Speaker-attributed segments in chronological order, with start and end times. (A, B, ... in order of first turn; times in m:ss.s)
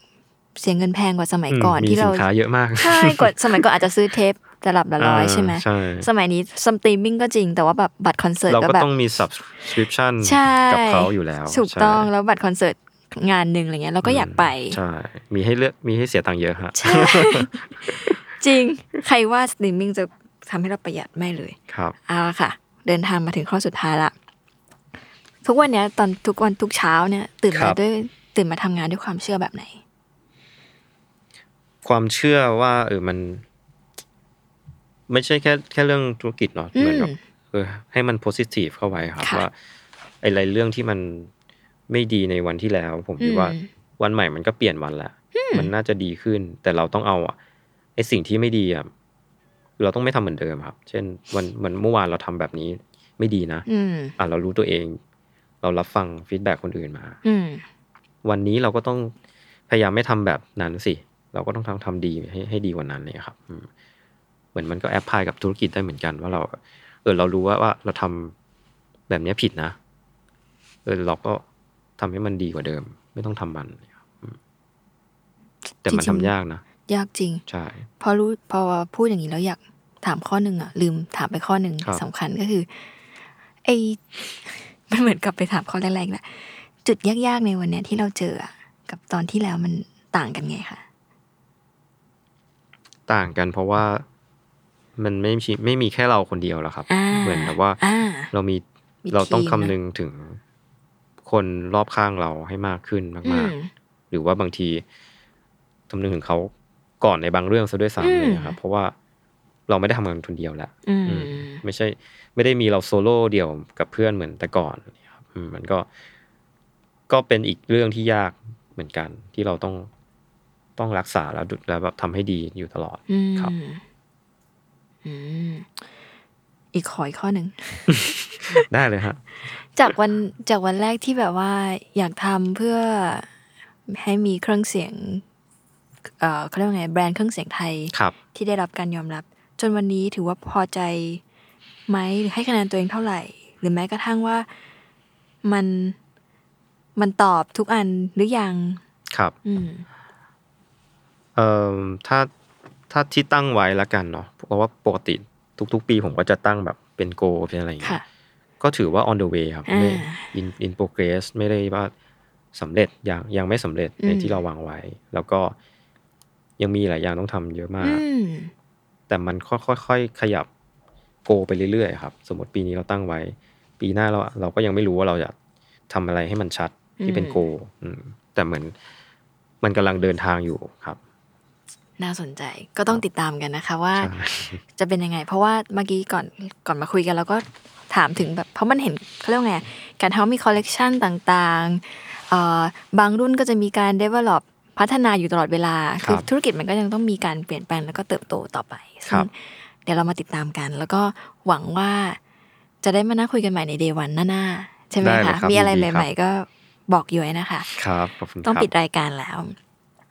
0:00.6-0:08.9 A
0:01.5-0:03.6 B
0:05.0-0:06.1 B
0:08.5-0:12.1 B
0:10.2-0:14.8 A
0:14.0-0:18.2 B
0:16.7-0:24.1 A
0:21.7-0:22.0 B
0:25.4-0:29.8 A
0:27.5-0:27.8 B
0:31.8-0:33.4 B
0:35.1-0:39.5 B
0:36.8-0:37.2 A
0:39.2-0:39.4 A
0:40.2-0:41.3 B
0:41.9-0:47.4 B
0:43.2-0:43.7 A
0:45.3-0:45.7 A
0:48.0-0:48.9 B
0:49.8-0:53.6 B
0:53.6-0:54.1 A
0:54.2-0:55.0 B
0:55.6-0:57.2 B
0:57.2-0:57.6 A
0:58.2-0:59.1 B
0:59.7-1:03.7 B
1:04.5-1:08.3 B
1:09.1-1:09.8 B
1:10.8-1:11.4 B
1:12.0-1:14.4 B
1:15.8-1:16.6 B
1:15.8-1:16.3 A
1:16.8-1:17.4 A
1:17.5-1:17.8 B
1:18.0-1:22.9 A
1:23.6-1:30.8 A
1:33.1-1:34.0 B
1:35.0-1:37.8 B
1:36.9-1:38.3 A
1:38.3-1:40.4 B
1:39.0-1:39.7 A
1:41.2-1:43.5 B
1:43.2-1:43.7 A
1:44.1-1:44.8 B
1:45.9-1:48.9 B
1:48.0-1:48.6 A
1:49.7-1:55.9 B
1:50.8-1:51.6 A
1:57.1-1:59.9 B
2:00.8-2:03.5 B
2:03.1-2:03.8 A
2:05.0-2:05.7 A
2:06.7-2:08.6 A
2:07.9-2:09.2 B
2:09.7-2:13.3 A
2:13.9-2:15.2 A
2:16.2-2:21.2 A
2:21.9-2:24.5 A
2:25.4-2:26.0 A
2:27.0-2:28.8 A
2:29.4-2:29.8 A
2:31.3-2:32.3 B
2:32.9-2:38.0 B
2:38.6-2:41.9 B
2:39.7-2:40.3 A
2:42.5-2:45.5 B
2:44.0-2:44.4 A
2:46.6-2:48.0 B
2:47.8-2:48.5 A
2:49.1-2:50.5 B
2:51.2-2:55.3 B
2:55.9-2:58.7 B
2:57.0-2:57.4 A
2:59.6-3:01.0 B
3:02.0-3:04.1 A
3:04.0-3:04.6 B
3:04.7-3:22.2 A
3:22.8-3:27.7 A
3:25.0-3:26.1 B
3:27.7-3:28.7 B
3:28.4-3:29.6 A